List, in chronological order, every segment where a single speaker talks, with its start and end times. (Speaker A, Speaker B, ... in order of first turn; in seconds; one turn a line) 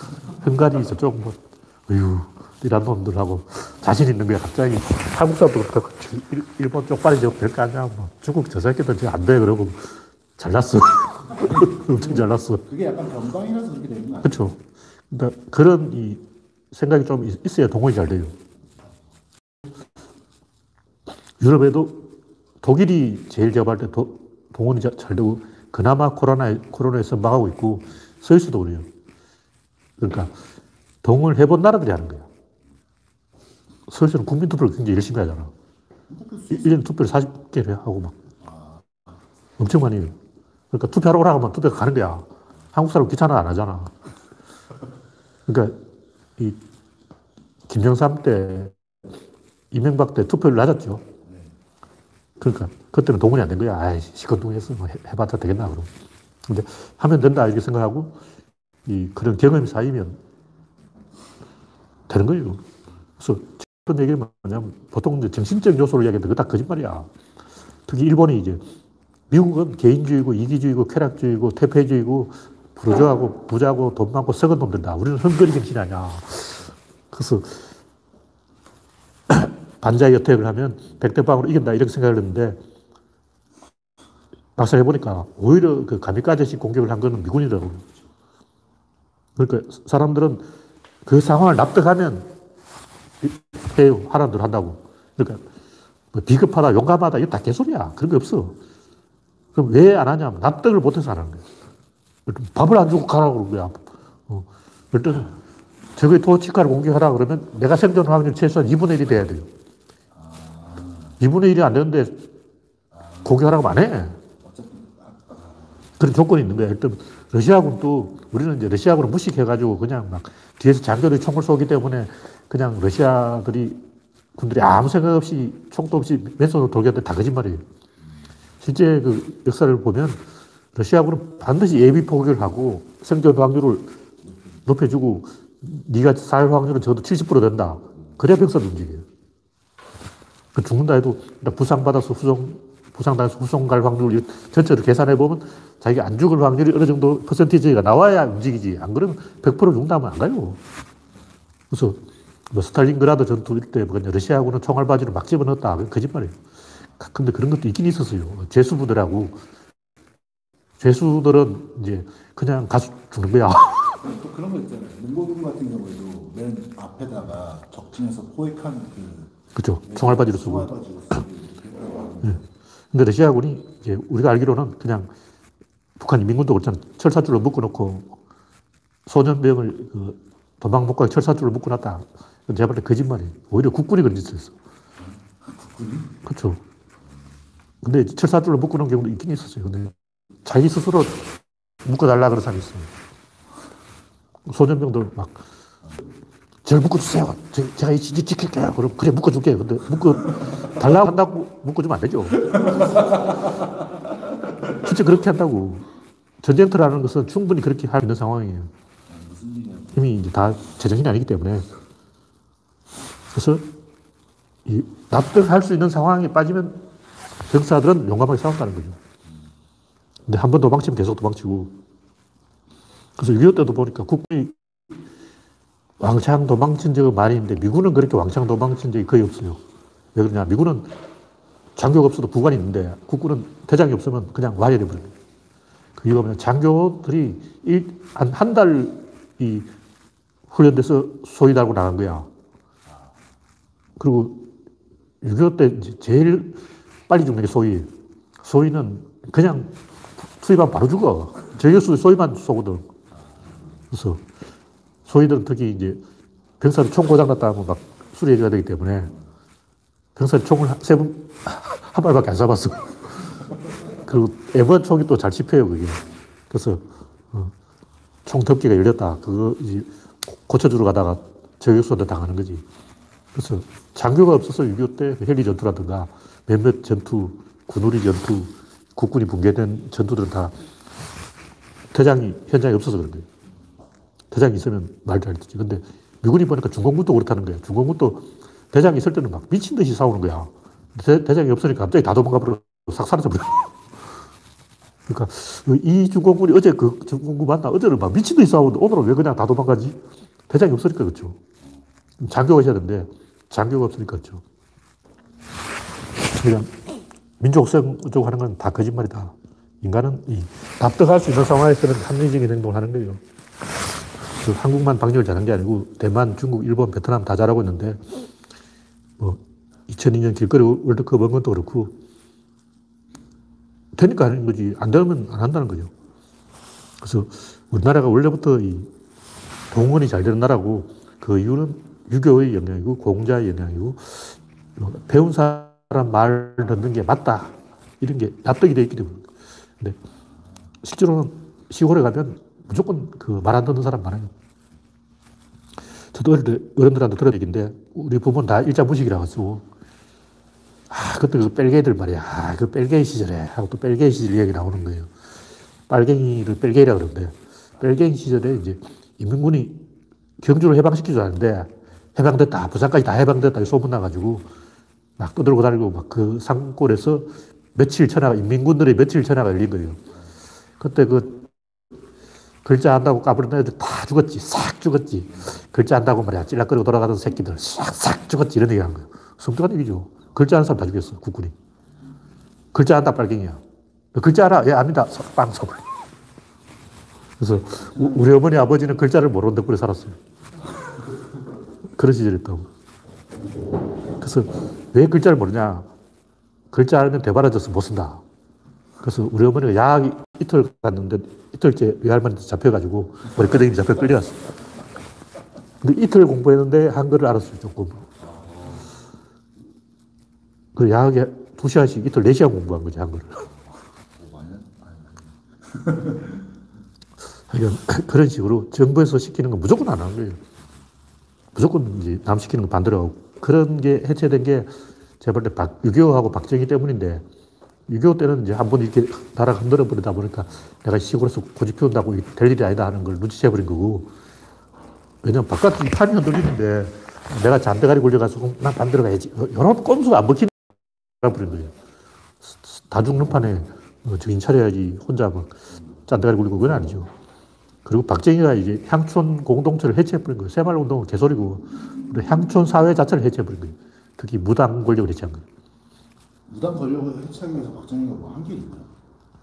Speaker A: 0.4-12.6
Speaker B: 11.5-14.5
Speaker A: 14.2-14.6
Speaker A: 15.1-18.4
Speaker A: 21.4-22.1
Speaker A: 22.6-28.9
Speaker A: 30.0-30.3
Speaker A: 31.0-32.3
Speaker A: 33.9-35.5
Speaker B: 36.1-36.8
Speaker A: 36.5-38.2
Speaker B: 38.4-39.1
Speaker A: 39.6-40.1
Speaker A: 40.7-43.9
Speaker A: 45.5-45.8
Speaker A: 47.7-48.7
Speaker A: 49.7-51.0
Speaker B: 51.2-51.5
Speaker A: 52.4-55.9
Speaker A: 56.5-58.2
Speaker A: 58.9-60.2
Speaker A: 62.1-62.6
Speaker A: 63.2-67.1
Speaker A: 67.9-68.6
Speaker A: 69.3-77.6
Speaker A: 79.3-82.6
Speaker A: 84.6-87.8
Speaker A: 89.4-90.4
Speaker A: 91.0-92.3
Speaker A: 93.2-95.4
Speaker A: 96.1-98.6
Speaker A: 99.5-101.5
Speaker A: 102.3-105.3
Speaker A: 106.0-109.5
Speaker B: 110.1-111.2
Speaker A: 111.2-112.2
Speaker B: 112.9-113.7
Speaker A: 113.2-114.2
Speaker B: 114.4-115.9
Speaker A: 116.0-123.8
Speaker A: 124.4-127.6
Speaker A: 128.6-130.2
Speaker A: 130.7-133.9
Speaker A: 134.7-139.0
Speaker A: 140.5-150.6
Speaker A: 151.7-156.3
Speaker A: 157.0-159.4
Speaker A: 160.8-164.0
Speaker B: 164.0-172.4
Speaker A: 169.5-170.7
Speaker A: 172.9-175.1
Speaker A: 176.0-178.2
Speaker A: 179.1-184.6
Speaker B: 185.0-186.2
Speaker A: 186.2-186.6
Speaker A: 187.8-189.9
Speaker A: 190.4-192.9
Speaker A: 194.5-195.4
Speaker A: 196.6-202.5
Speaker A: 204.7-205.8
Speaker A: 206.4-208.7
Speaker B: 209.1-210.1
Speaker A: 209.9-211.7
Speaker A: 213.3-213.7
Speaker A: 214.7-216.8
Speaker A: 217.5-219.0
Speaker A: 220.3-221.8
Speaker A: 223.2-224.5
Speaker A: 226.0-229.6
Speaker A: 230.1-230.9
Speaker A: 231.8-235.1
Speaker A: 236.0-239.7
Speaker A: 240.5-242.3
Speaker A: 244.0-244.5
Speaker A: 245.2-247.9
Speaker A: 248.4-252.9
Speaker A: 253.9-254.2
Speaker A: 255.1-256.0
Speaker A: 256.6-259.1
Speaker A: 260.1-263.2
Speaker A: 264.0-267.5
Speaker A: 268.2-272.6
Speaker A: 273.3-280.5
Speaker A: 281.9-283.3
Speaker A: 284.3-293.7
Speaker A: 295.1-300.0
Speaker A: 300.5-301.4
Speaker A: 302.2-304.4
Speaker A: 306.4-306.8
Speaker A: 307.4-313.2
Speaker A: 314.4-318.0
Speaker A: 319.2-321.9
Speaker A: 323.9-325.9
Speaker A: 327.0-328.9
Speaker A: 329.7-339.3
Speaker A: 340.8-344.3
Speaker A: 346.1-349.6
Speaker A: 350.9-355.1
Speaker A: 355.9-359.8
Speaker A: 360.4-364.5
Speaker A: 365.2-370.0
Speaker A: 370.8-371.4
Speaker A: 372.6-381.5
Speaker A: 382.7-383.6
Speaker A: 384.1-385.8
Speaker A: 387.4-390.2
Speaker A: 392.0-392.7
Speaker A: 394.2-395.9
Speaker A: 396.7-398.2
Speaker A: 399.0-404.4
Speaker A: 405.8-408.1
Speaker B: 408.2-408.9
Speaker A: 410.8-413.5
Speaker B: 414.1-416.4
Speaker A: 417.5-420.4
Speaker A: 421.5-427.2
Speaker A: 427.9-434.1
Speaker A: 435.2-440.5
Speaker A: 441.2-441.7
Speaker A: 442.4-447.1
Speaker A: 447.8-455.4
Speaker B: 456.5-458.9